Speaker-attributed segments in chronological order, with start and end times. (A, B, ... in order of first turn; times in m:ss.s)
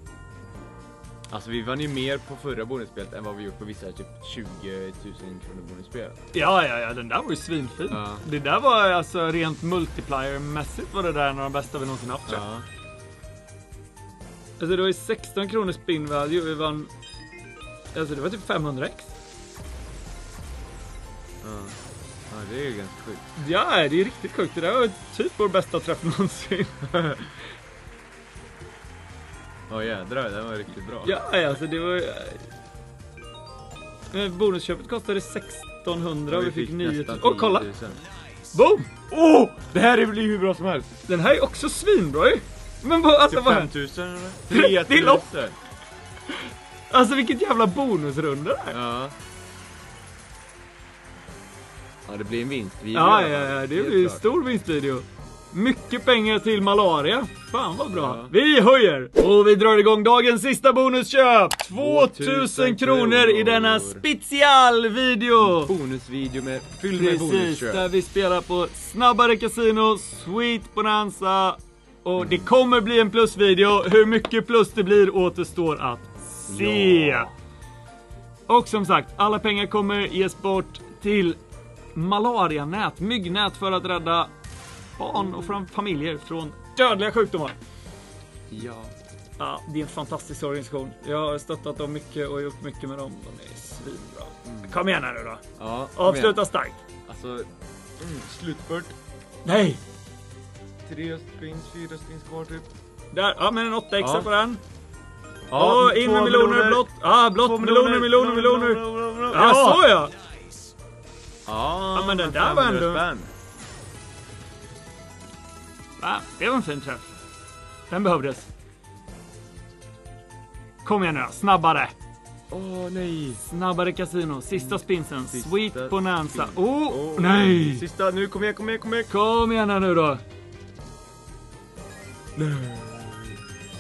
0:01.3-0:06.2 A
0:06.3-0:12.4 B
0:07.9-0:08.2 A
0:12.3-0:12.7 A
0:14.6-0:16.9 B
0:17.9-0:19.1 B
0:21.4-0:21.8 A
0:22.3-0:23.2 A
0:23.4-0:27.2 B
0:29.7-0:31.2 A
0:31.0-0:32.5 B
0:34.1-0:37.7 B
0:36.3-0:38.0 A
0:38.5-0:38.9 B
0:39.1-0:41.0 A
0:41.1-0:43.7 B
0:43.3-0:45.6 A
0:44.5-0:45.3 B
0:46.9-0:48.8 B
0:48.7-0:49.2 A
0:52.1-0:54.3 A
0:52.9-1:05.7 B
0:57.9-0:58.3 A
1:01.7-1:04.0 A
1:05.4-1:07.9 A
1:06.9-1:17.3 B
1:12.2-1:12.5 A
1:16.5-1:17.3 A
1:18.5-1:21.4 B
1:22.0-1:24.3 B
1:25.0-1:27.6 B
1:25.2-1:25.6 A
1:28.5-1:29.0 A
1:29.4-1:35.4 B
1:34.4-1:34.8 A
1:35.6-1:36.4 A
1:36.0-1:36.8 B
1:37.1-1:39.0 A
1:39.4-1:39.8 B
1:40.8-1:42.7 A
1:43.1-1:44.6 B
1:44.0-1:44.3 A
1:45.5-1:50.0 A
1:45.5-1:50.1 B
1:51.5-1:53.3 A
1:51.9-1:53.0 B
1:56.0-1:57.1 B
1:57.9-1:58.5 B
2:00.8-2:01.9 B
2:02.5-2:03.4 A
2:03.4-2:07.9 B
2:04.5-2:09.1 A
2:09.1-2:10.2 B
2:12.4-2:13.5 A